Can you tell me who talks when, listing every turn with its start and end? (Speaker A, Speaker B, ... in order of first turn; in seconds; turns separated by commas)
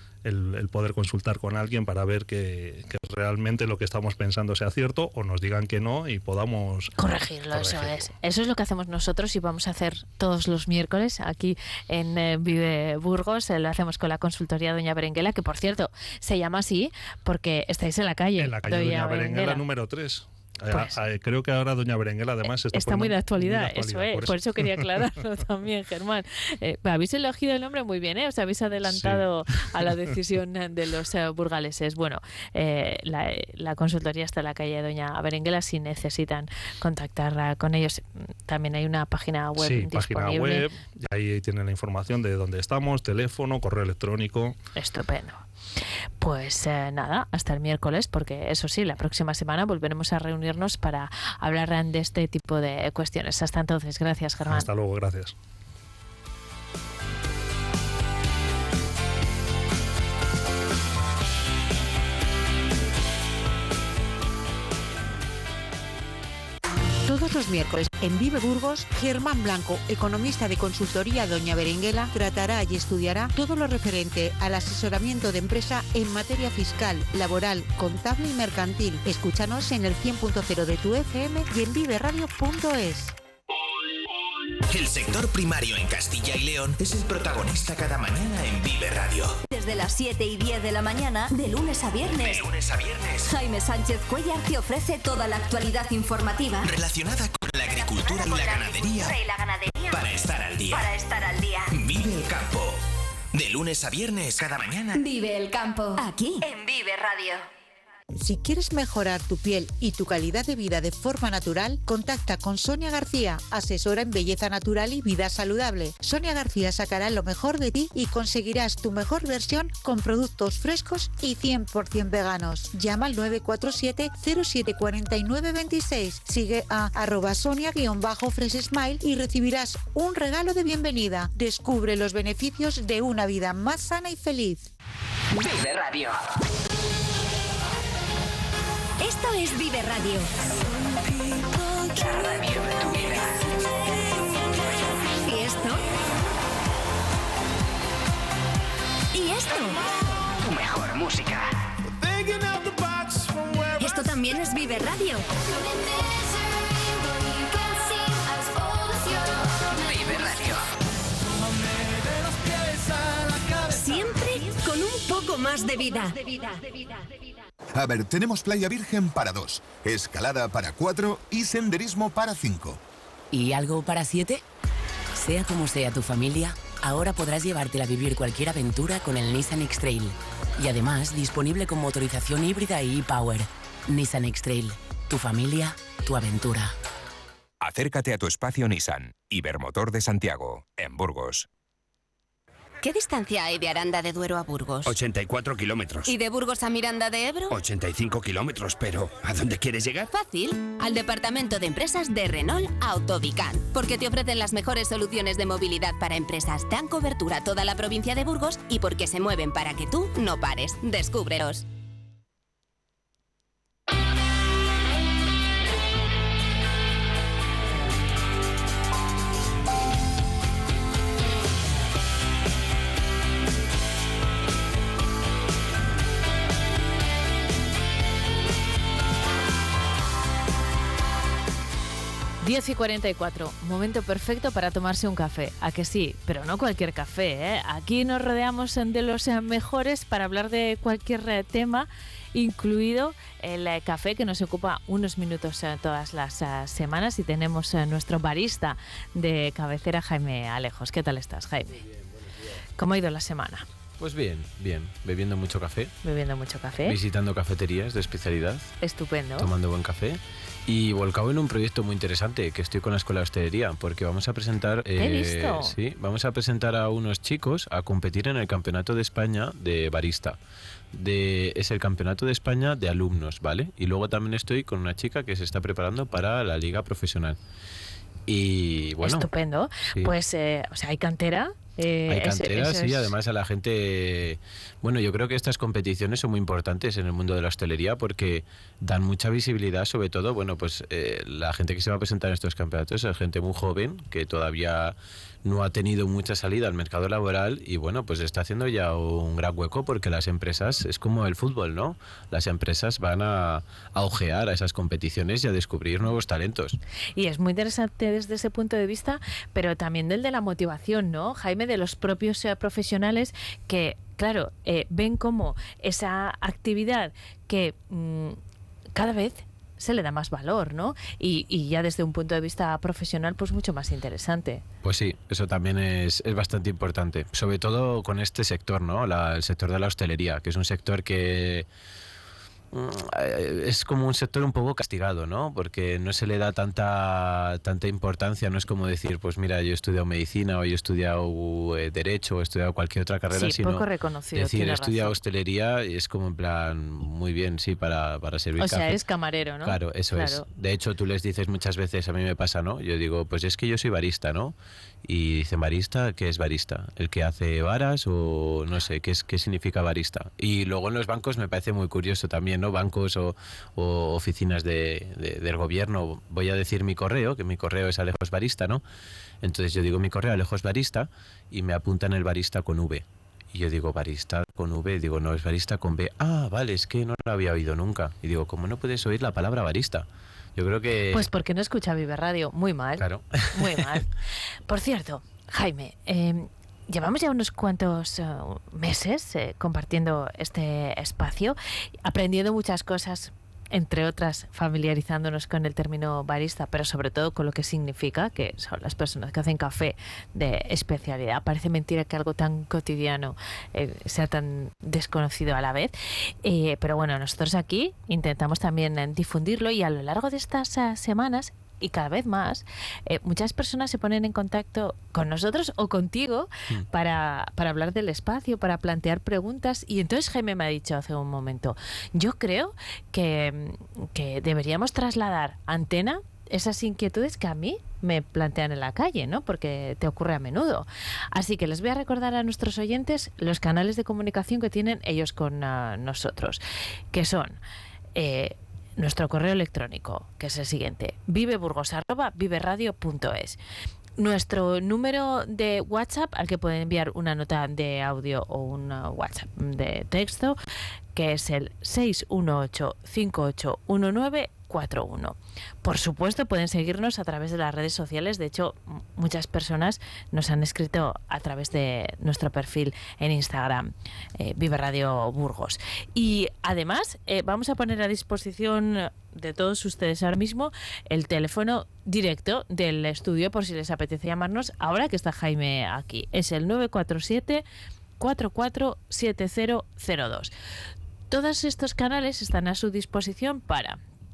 Speaker A: 0.2-6.9, Speaker B: 7.0-19.6, Speaker A: 7.5-8.1, Speaker A: 18.4-25.0, Speaker B: 20.7-21.0, Speaker B: 22.7-40.7, Speaker A: 28.9-30.0, Speaker A: 39.6-44.6, Speaker B: 44.8-45.4, Speaker B: 46.2-54.7, Speaker A: 54.5-55.4, Speaker C: 67.1-83.1, Speaker D: 84.7-89.4, Speaker E: 89.7-91.9, Speaker D: 92.1-93.3, Speaker F: 93.6-94.3, Speaker D: 96.6-99.2, Speaker F: 99.0-99.9, Speaker D: 99.9-100.9, Speaker F: 100.9-101.7, Speaker D: 101.7-102.8, Speaker D: 103.3-105.0, Speaker F: 105.0-107.4, Speaker E: 105.9-106.4, Speaker C: 108.1-134.7, Speaker G: 135.3-136.2, Speaker E: 139.0-140.3, Speaker G: 141.9-143.5, Speaker E: 145.2-145.8, Speaker E: 149.1-149.8, Speaker G: 150.4-151.5, Speaker E: 153.7-155.3, Speaker G: 159.8-160.7, Speaker E: 163.6-167.3, Speaker H: 167.8-172.8, Speaker I: 173.3-174.4, Speaker I: 175.2-186.7, Speaker J: 187.6-191.5, Speaker F: 192.8-194.9, Speaker K: 194.8-196.1, Speaker F: 196.1-197.6, Speaker K: 197.5-200.1, Speaker F: 200.1-211.7, Speaker B: 232.4-251.8, Speaker L: 252.0-252.3, Speaker B: 252.8-253.7, Speaker L: 254.0-255.9, Speaker B: 256.0-257.0, Speaker L: 256.8-258.7, Speaker B: 258.8-259.5, Speaker L: 259.4-270.4, Speaker B: 265.0-265.8, Speaker L: 270.9-277.4, Speaker L: 278.3-279.3, Speaker B: 279.0-283.1, Speaker L: 282.1-306.8, Speaker B: 307.2-318.4, Speaker B: 318.9-324.6, Speaker L: 324.8-331.7, Speaker L: 332.7-349.0, Speaker B: 343.3-345.2, Speaker B: 348.6-350.4, Speaker L: 349.6-354.6, Speaker L: 355.1-368.8, Speaker L: 369.4-381.3, Speaker B: 381.1-436.6, Speaker L: 383.0-384.0, Speaker B: 437.1-437.6, Speaker B: 438.1-443.6, Speaker B: 444.2-450.6, Speaker B: 451.1-477.6, Speaker B: 478.2-480.5, Speaker B: 481.3-484.0